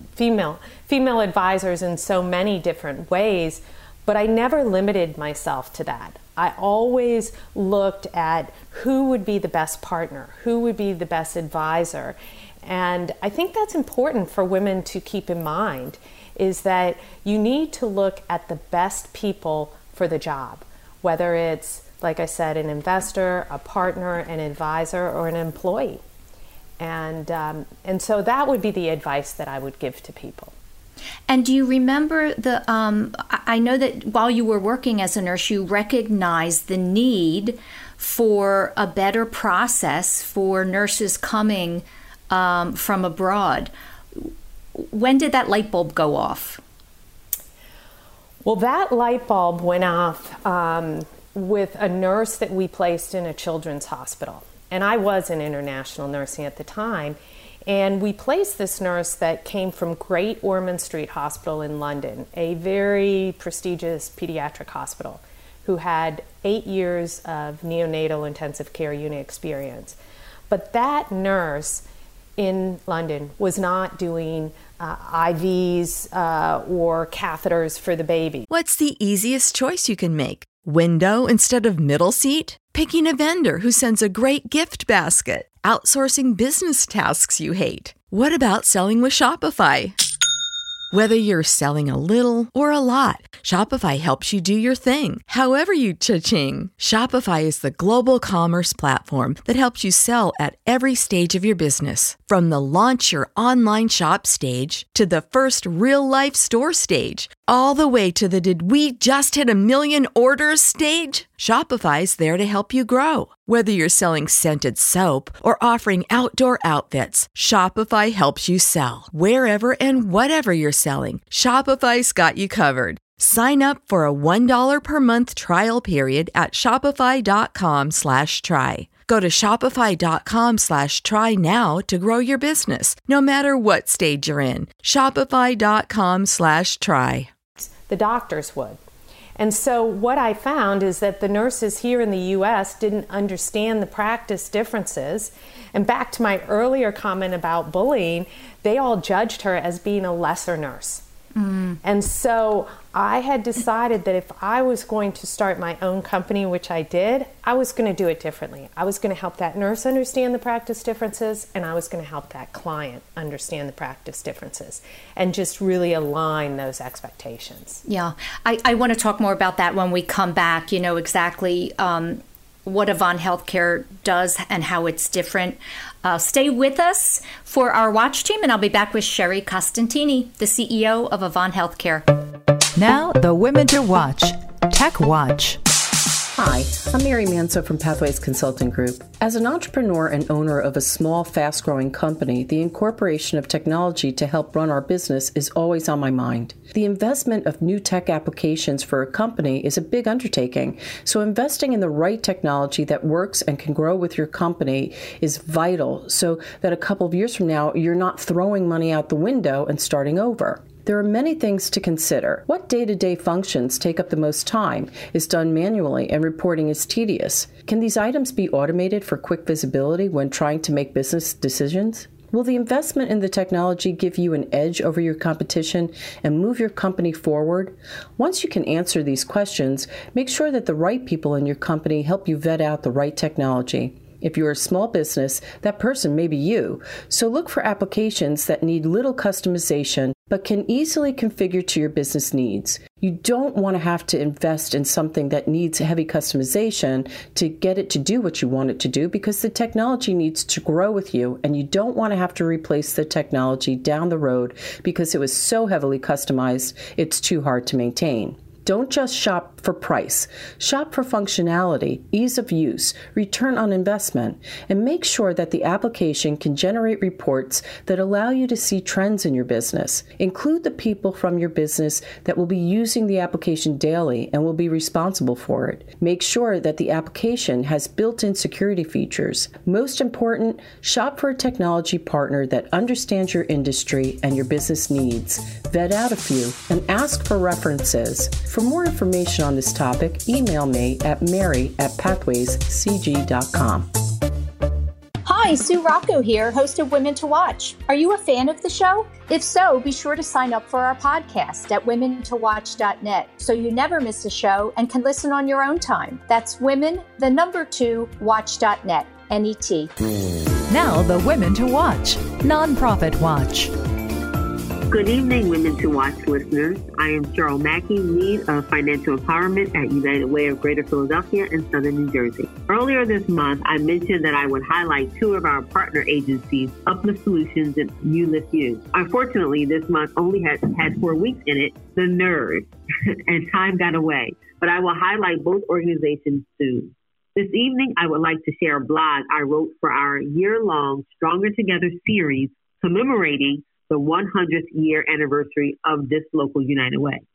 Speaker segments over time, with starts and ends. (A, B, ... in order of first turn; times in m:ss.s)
0:00.1-0:26.0 A
0:26.8-0:30.5 A
0:31.3-0:46.6 B
0:48.4-1:10.0 A
1:10.5-1:11.8 A
1:12.4-1:18.4 A
1:18.5-1:30.0 C
1:30.9-2:17.3 C
2:17.7-2:18.8 A
2:19.4-2:31.0 A
2:31.4-2:31.8 B
2:31.8-2:47.8 A
2:47.9-3:02.0 B
3:02.8-3:05.6 D
3:06.4-4:53.9 E
4:55.3-5:09.9 B
5:10.7-5:13.7 D
5:14.9-5:32.7 F
5:33.3-5:47.2 F